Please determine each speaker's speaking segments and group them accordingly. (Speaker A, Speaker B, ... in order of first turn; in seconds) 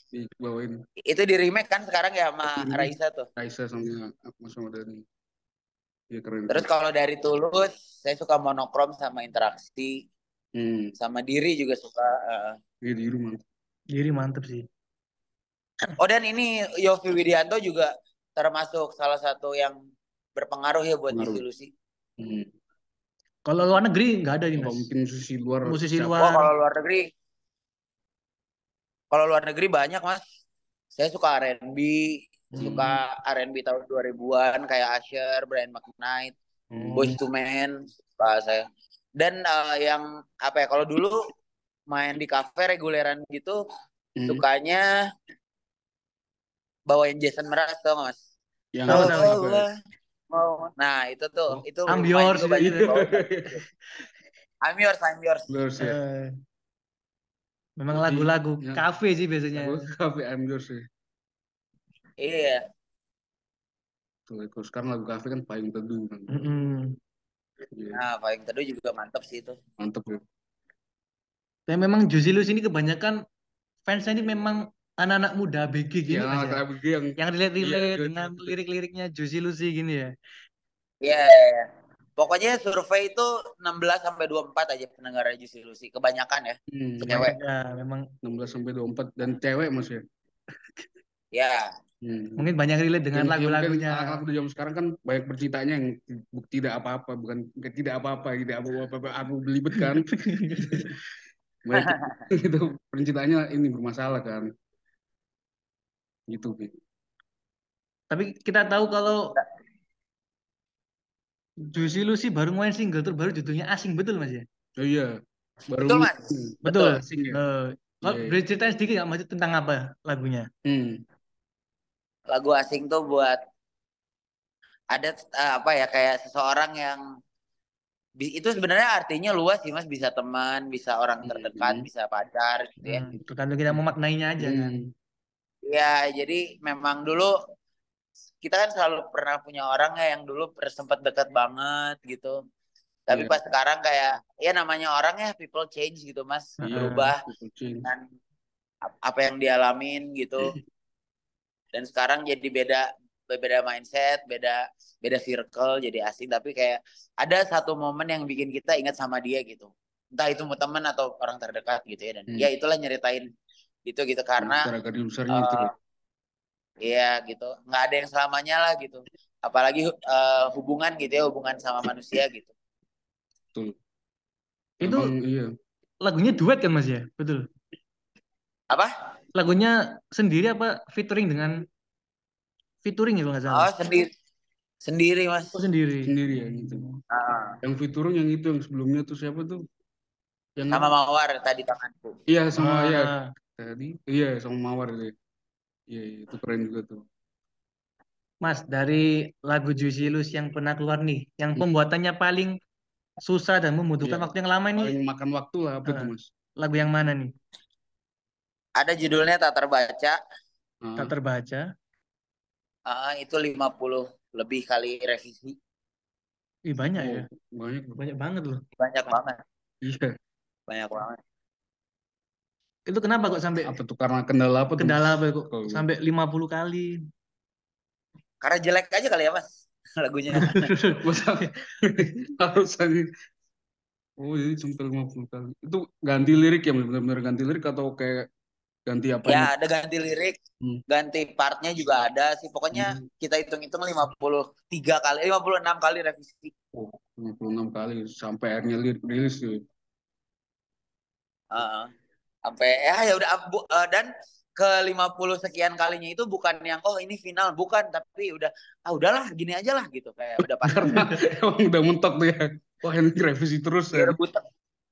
Speaker A: 0.1-0.8, 2.5-5.0, 6.1-6.7, 10.6-10.9, 12.8-13.4, 21.1-21.4, 22.2-22.5, 24.6-26.2, 32.5-33.0, 36.7-37.2, 44.2-44.4, 48.7-49.7, 51.5-52.0, 52.6-53.5, 55.5-56.0, 57.9-58.8, 59.5-60.8, 64.3-66.3, 67.7-68.0, 69.8-70.2, 76.1-78.6, 86.7-87.2, 88.2-90.0, 92.0-92.5, 93.1-100.1, 100.6-100.9, 101.7-104.5, 106.3-106.7, 114.8-115.1, 115.7-117.4, 118.0-118.4, 120.7-121.0, 131.2-131.9, 133.1-133.8, 134.4-134.9, 143.1-143.4, 146.6-147.9, 164.4-165.7, 174.8-175.5, 186.0-186.8, 187.6-189.6, 190.6-190.9, 192.3-195.1, 195.9-197.0, 204.0-206.3, 210.8-211.1, 217.0-218.0, 219.8-220.1, 223.6-225.9, 231.0-233.1, 234.2-238.3, 238.9-239.5, 242.7-243.0, 246.7-249.6, 260.6-264.2
Speaker B: 1.1-3.3, 6.5-9.9, 11.0-12.6, 16.0-19.8, 20.4-21.7, 26.2-27.0, 29.1-30.2, 30.9-36.3, 36.9-38.6, 39.2-41.2, 41.9-43.6, 44.3-44.8, 46.9-48.2, 48.9-49.7, 50.3-53.6, 54.6-55.5, 62.2-62.6, 67.9-69.5, 81.0-81.7, 82.2-87.4, 91.3-91.7, 101.8-102.2, 115.8-116.2, 122.3-123.4, 124.9-127.0, 128.2-133.1, 135.7-137.3, 138.4-142.3, 143.1-147.2, 148.9-150.5, 151.7-163.2, 163.8-164.7, 165.3-165.7, 166.8-172.5, 183.5-184.1, 184.8-185.5, 187.1-187.6, 190.7-192.2, 208.8-210.2, 212.9-215.6, 218.8-219.4, 220.7-221.2, 228.4-229.4, 230.0-230.6, 239.2-240.3, 240.9-246.5, 251.5-251.9, 252.5-261.0, 263.9-264.4
Speaker C: 13.9-14.6, 23.5-24.9, 25.7-26.5, 48.9-49.4, 51.9-52.9, 55.8-56.3, 57.8-59.9, 66.3-67.0, 71.7-73.2, 73.9-76.6, 77.2-80.1, 87.1-88.1, 92.4-94.2, 99.8-100.9, 108.1-109.2, 111.7-114.4, 116.7-120.5, 132.8-134.8, 146.6-147.1, 174.8-175.1, 176.0-177.4, 179.3-181.5, 182.8-183.7, 185.5-187.0, 192.6-193.2, 198.4-202.5, 203.2-204.9, 205.9-207.3, 211.0-211.6, 216.7-217.2, 218.0-218.6, 222.9-223.7, 224.8-226.9, 230.4-231.5